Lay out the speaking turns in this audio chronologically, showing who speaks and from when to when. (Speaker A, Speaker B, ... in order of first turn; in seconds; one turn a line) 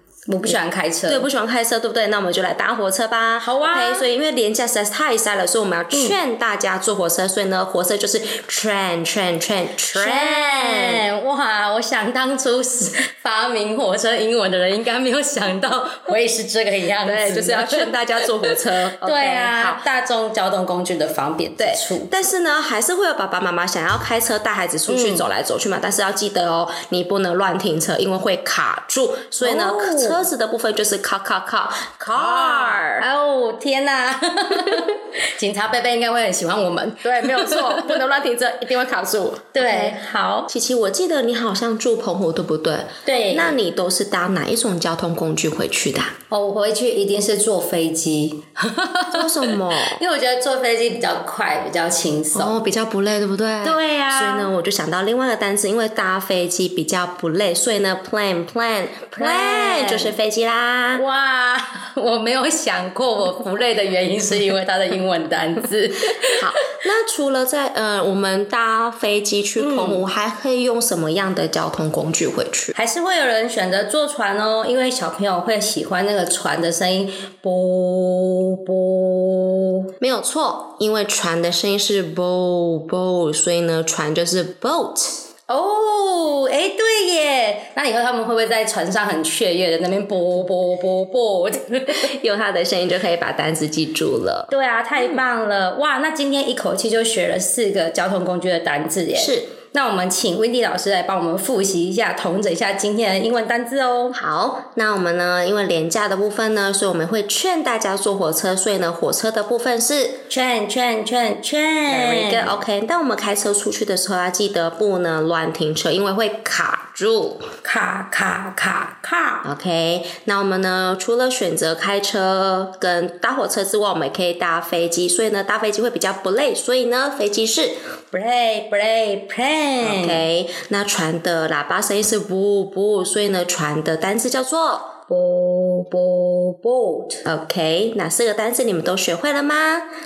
Speaker A: 0.3-1.3
Speaker B: 0.5-11.0
Speaker A: 3.4-4.1
Speaker A: 5.9-6.2
Speaker A: 9.9-22.1
Speaker B: 17.0-19.8
Speaker B: 21.6-33.0
Speaker A: 24.9-25.3
Speaker A: 29.4-30.2
Speaker A: 32.1-38.0
Speaker B: 37.0-40.0
Speaker A: 39.5-40.5
Speaker B: 40.5-46.1
Speaker A: 43.1-43.6
Speaker A: 46.3-52.6
Speaker B: 49.1-50.0
Speaker B: 52.3-61.0
Speaker A: 53.6-54.5
Speaker A: 59.2-60.1
Speaker A: 60.9-66.8
Speaker B: 66.4-72.8
Speaker A: 69.6-70.0
Speaker A: 72.8-79.9
Speaker B: 80.0-85.2
Speaker A: 85.5-92.1
Speaker B: 91.9-95.2
Speaker A: 94.5-104.2
Speaker B: 99.2-99.5
Speaker B: 104.1-110.2
Speaker A: 110.3-112.6
Speaker B: 111.9-117.5
Speaker A: 117.6-119.5
Speaker B: 119.4-127.8
Speaker A: 128.1-130.2
Speaker B: 129.8-134.9
Speaker A: 135.1-137.2
Speaker B: 137.3-139.8